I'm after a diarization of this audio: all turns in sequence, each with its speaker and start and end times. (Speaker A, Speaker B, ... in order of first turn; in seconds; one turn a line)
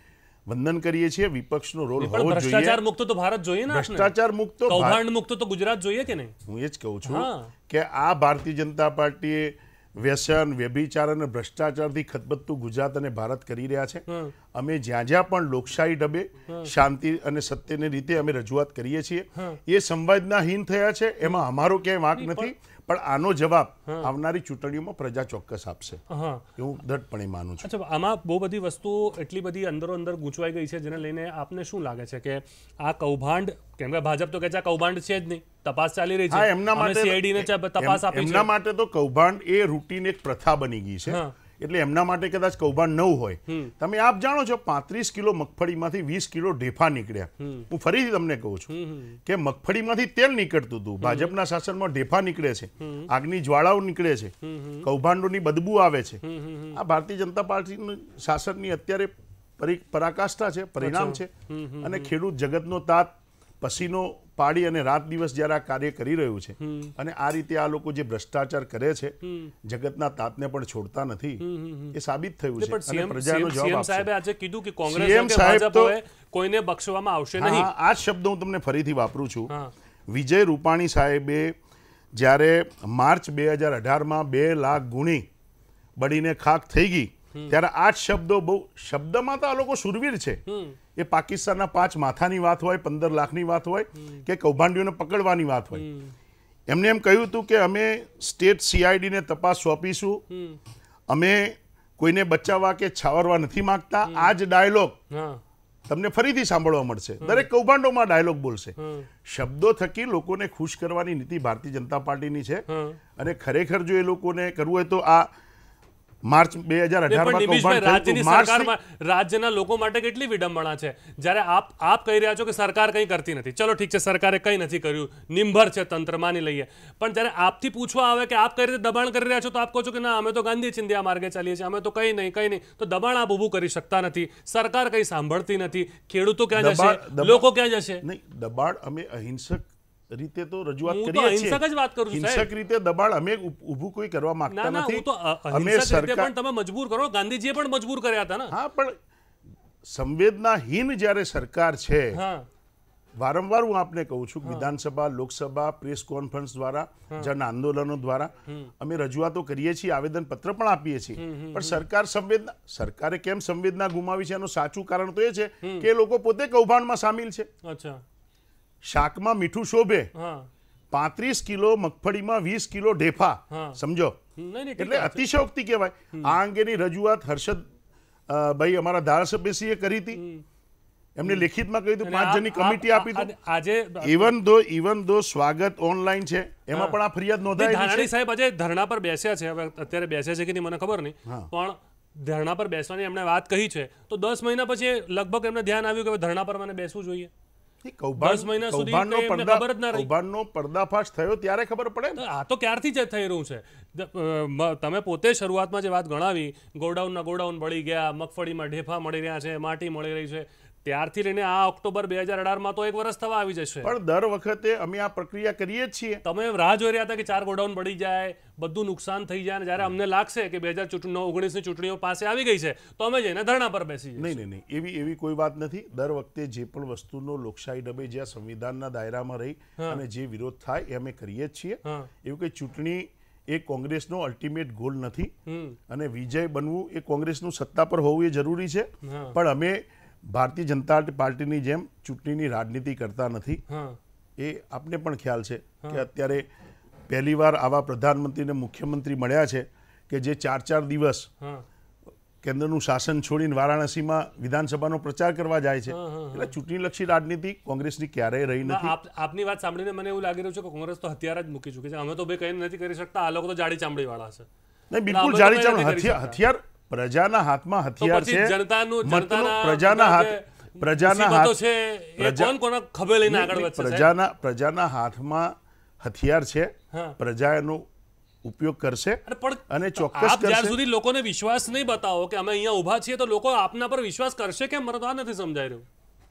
Speaker A: 0.5-2.8
Speaker B: 2.0-4.1
Speaker A: 3.7-5.0
Speaker B: 4.7-6.3
Speaker A: 6.5-26.0
Speaker B: 7.0-7.5
Speaker B: 14.1-14.3
Speaker B: 22.1-22.5
Speaker B: 26.1-26.4
Speaker A: 26.6-27.7
Speaker B: 27.6-38.5
Speaker A: 36.3-48.7
Speaker B: 41.1-41.3
Speaker B: 47.4-47.7
Speaker B: 48.7-49.2
Speaker A: 49.2-56.2
Speaker B: 51.0-51.3
Speaker B: 52.8-53.1
Speaker B: 54.4-54.9
Speaker B: 56.2-56.8
Speaker A: 56.7-74.1
Speaker B: 60.8-62.1
Speaker B: 66.6-66.9
Speaker B: 69.2-69.5
Speaker B: 71.4-72.0
Speaker B: 72.6-77.7
Speaker A: 74.8-75.9
Speaker A: 77.4-79.5
Speaker A: 80.1-81.5
Speaker A: 82.2-85.2
Speaker A: 86.0-90.4
Speaker B: 90.5-90.8
Speaker A: 91.0-95.8
Speaker B: 95.8-96.1
Speaker A: 96.7-100.2
Speaker B: 100.3-100.6
Speaker A: 101.1-105.0
Speaker B: 105.1-105.4
Speaker A: 105.9-112.6
Speaker B: 107.2-107.5
Speaker B: 108.8-109.1
Speaker B: 112.7-113.0
Speaker A: 113.2-115.3
Speaker A: 116.3-118.7
Speaker B: 117.1-138.0
Speaker A: 136.5-137.5
Speaker A: 138.0-141.6
Speaker B: 140.8-142.5
Speaker A: 142.1-146.3
Speaker B: 144.5-148.5
Speaker A: 148.5-148.9
Speaker A: 149.9-152.2
Speaker B: 152.1-152.5
Speaker A: 153.2-167.5
Speaker B: 161.2-161.8
Speaker B: 165.6-165.9
Speaker B: 167.6-168.0
Speaker A: 168.8-170.1
Speaker B: 170.2-170.5
Speaker A: 170.9-174.2
Speaker B: 173.5-173.8
Speaker B: 174.4-175.2
Speaker A: 174.8-177.7
Speaker A: 178.3-180.2
Speaker B: 180.1-180.4
Speaker A: 181.2-183.3
Speaker B: 182.0-184.3
Speaker A: 184.0-188.1
Speaker B: 186.7-187.0
Speaker B: 187.6-197.3
Speaker A: 197.8-202.2
Speaker B: 198.2-200.1
Speaker B: 202.2-213.9
Speaker A: 213.8-216.2
Speaker B: 216.2-224.4
Speaker A: 224.2-235.3
Speaker B: 235.5-235.8
Speaker A: 235.9-243.6
Speaker B: 239.0-239.4
Speaker B: 243.7-244.0
Speaker A: 244.4-246.4
Speaker A: 247.1-251.3
Speaker A: 252.4-258.9
Speaker B: 255.9-256.5
Speaker B: 258.6-264.5
Speaker A: 264.9-271.6
Speaker B: 265.1-266.4
Speaker B: 268.0-274.1
Speaker A: 272.2-272.6
Speaker A: 273.2-277.9
Speaker B: 276.9-277.2
Speaker A: 278.4-280.8
Speaker B: 279.3-285.9